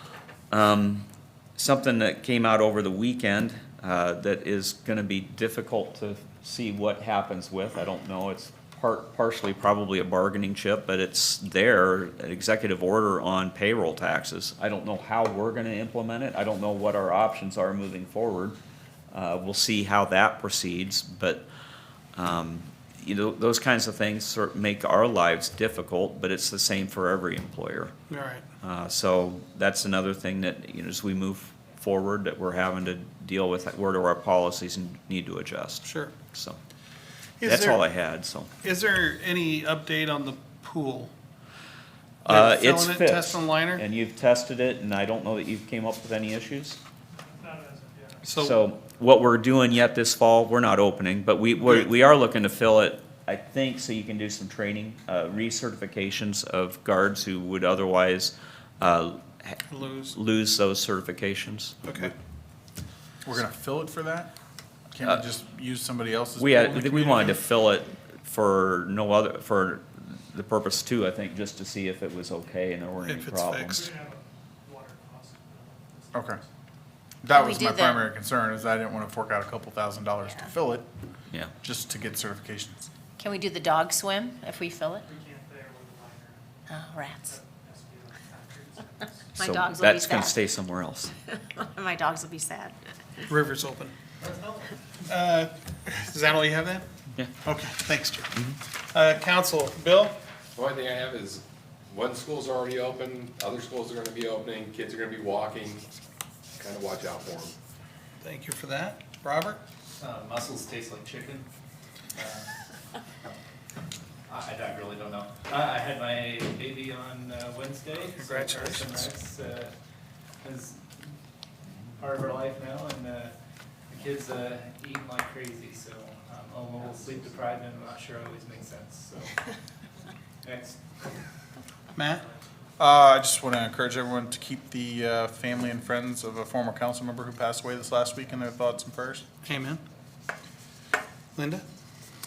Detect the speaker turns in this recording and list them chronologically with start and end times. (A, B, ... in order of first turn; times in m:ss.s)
0:00.5-0:01.0 A
0:01.6-0:18.6 A
0:19.1-0:21.4 A
0:22.2-0:27.9 A
0:28.1-0:28.4 B
0:28.6-0:36.6 A
0:35.8-0:36.2 B
0:37.4-0:37.8 B
0:37.4-0:38.5 A
0:38.6-0:41.1 B
0:42.2-0:46.8 A
0:42.3-0:43.8 B
0:47.3-0:48.3 C
0:48.2-0:48.6 B
0:48.3-0:59.6 A
0:59.7-1:00.2 B
1:00.1-1:02.1 A
1:01.8-1:02.1 B
1:03.2-1:04.3 D
1:04.9-1:07.4 D
1:06.4-1:13.8 A
1:13.0-1:13.8 B
1:13.7-1:16.4 C
1:16.1-1:16.4 D
1:17.2-1:20.9 D
1:17.3-1:18.0 E
1:21.6-1:22.8 D
1:23.2-1:25.0 E
1:25.1-1:26.4 C
1:26.7-1:27.3 E
1:27.2-1:29.2 C
1:29.4-1:30.3 E
1:29.4-1:31.1 A
1:31.3-1:32.8 E
1:33.3-1:34.0 B
1:34.2-1:34.7 C
1:35.0-1:36.8 B
1:37.4-1:38.3 B
1:38.9-1:40.2 B
1:40.5-1:45.8 F
1:46.5-1:47.5 F
1:48.2-1:49.6 B
1:50.0-1:51.4 G
1:52.1-1:52.5 G
1:54.3-1:59.7 G
1:58.1-1:59.0 B
2:00.4-2:00.8 G
2:02.0-2:03.4 G
2:03.9-2:09.5 G
2:10.4-2:10.8 G
2:12.0-2:12.2 B
2:12.8-2:19.2 D
2:19.4-2:19.8 B
2:21.4-2:21.6 B